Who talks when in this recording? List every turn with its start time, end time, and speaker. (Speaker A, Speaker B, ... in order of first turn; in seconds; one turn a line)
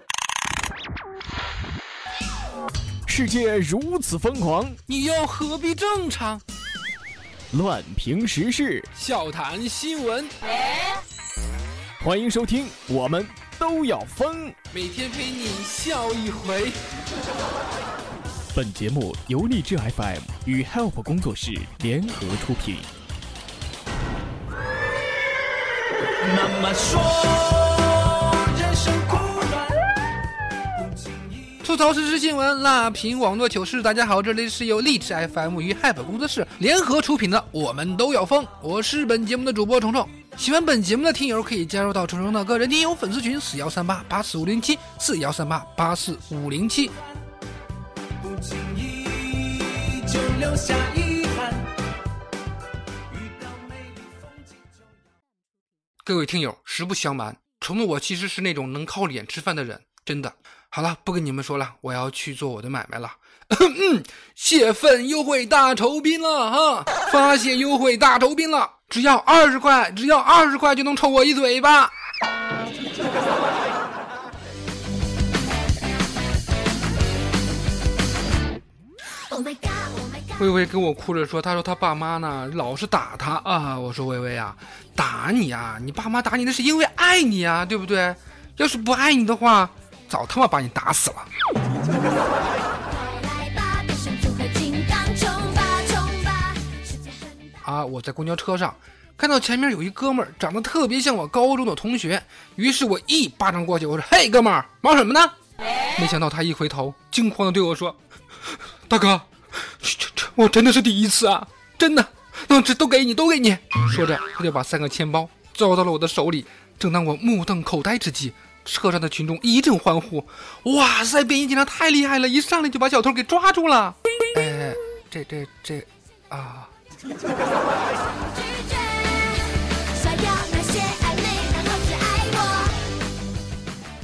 Speaker A: 3.1-4.8
Speaker B: 4.9-6.4
Speaker A: 7.5-8.8
Speaker B: 8.9-10.3
Speaker A: 12.0-14.5
Speaker B: 14.7-16.8
Speaker A: 18.5-22.9
Speaker C: 26.2-29.6
Speaker B: 31.6-46.9
Speaker C: 48.2-51.6
Speaker C: 53.1-53.6
Speaker B: 56.0-71.9
Speaker D: 79.3-80.2
Speaker B: 80.4-91.3
Speaker D: 92.9-96.8
Speaker B: 97.6-105.3
Speaker B: 106.0-108.0
Speaker B: 108.9-126.7
Speaker D: 128.1-129.4
Speaker D: 130.0-132.7